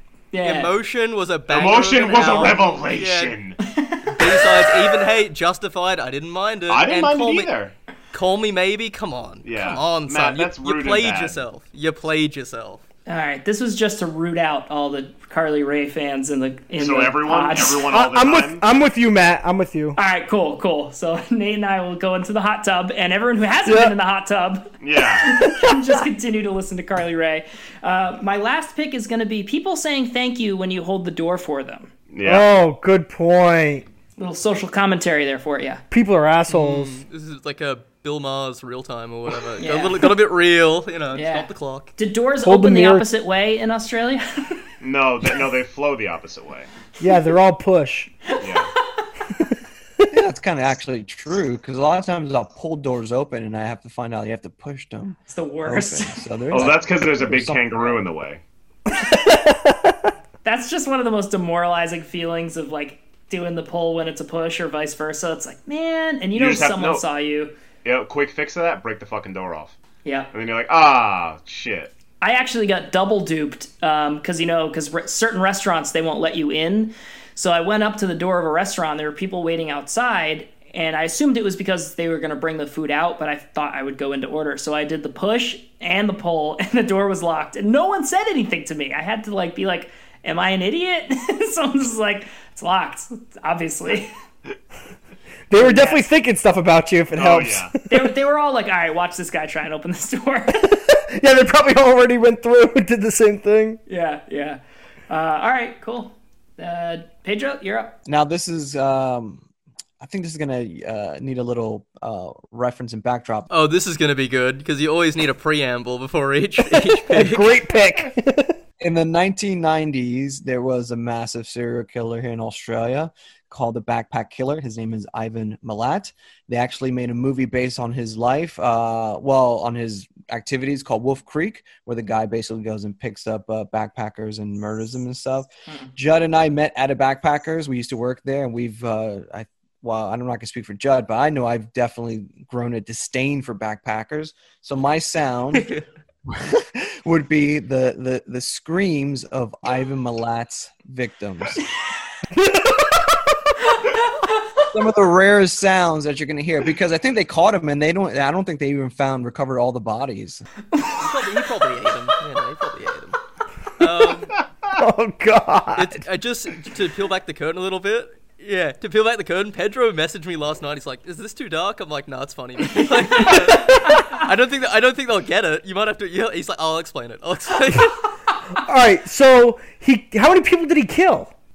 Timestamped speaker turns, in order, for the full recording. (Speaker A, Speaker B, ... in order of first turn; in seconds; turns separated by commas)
Speaker A: 0.3-0.7, Speaker B: 0.4-3.3, Speaker C: 1.5-3.6, Speaker A: 3.6-4.9, Speaker B: 4.1-7.5, Speaker C: 6.7-7.7, Speaker B: 8.1-12.8, Speaker C: 9.4-11.4, Speaker A: 13.1-17.9, Speaker C: 16.8-18.6, Speaker D: 17.9-20.0, Speaker A: 19.9-31.9, Speaker D: 23.6-23.9, Speaker C: 24.8-25.2, Speaker D: 25.4-25.7, Speaker C: 32.1-32.5, Speaker D: 32.2-33.9, Speaker A: 34.2-35.8, Speaker D: 35.9-37.0, Speaker B: 36.5-41.9, Speaker A: 39.6-40.1, Speaker A: 41.1-44.6, Speaker D: 42.4-43.0, Speaker C: 44.8-46.7, Speaker D: 47.0-48.1, Speaker A: 48.3-48.7, Speaker C: 48.4-48.7, Speaker E: 50.1-58.0, Speaker A: 55.3-56.2, Speaker C: 56.5-58.4, Speaker D: 58.9-60.0, Speaker A: 60.4-67.5, Speaker C: 66.3-67.0, Speaker C: 67.8-69.8, Speaker A: 70.0-70.3, Speaker C: 70.3-71.9, Speaker A: 72.2-94.1, Speaker D: 95.5-98.1, Speaker A: 95.6-96.0, Speaker C: 97.1-97.7, Speaker A: 97.9-100.8, Speaker D: 100.6-103.8, Speaker A: 103.9-108.0, Speaker E: 108.0-109.4, Speaker E: 110.0-113.5, Speaker B: 113.5-117.6, Speaker D: 116.8-118.6, Speaker E: 118.8-145.7, Speaker B: 145.5-145.8, Speaker E: 146.3-151.6, Speaker D: 152.3-153.1, Speaker A: 153.8-154.3, Speaker E: 154.7-160.4, Speaker A: 160.7-161.0, Speaker B: 160.9-163.2, Speaker B: 163.8-164.4, Speaker D: 164.8-166.0, Speaker B: 165.8-178.0, Speaker D: 173.2-174.0, Speaker D: 178.6-181.3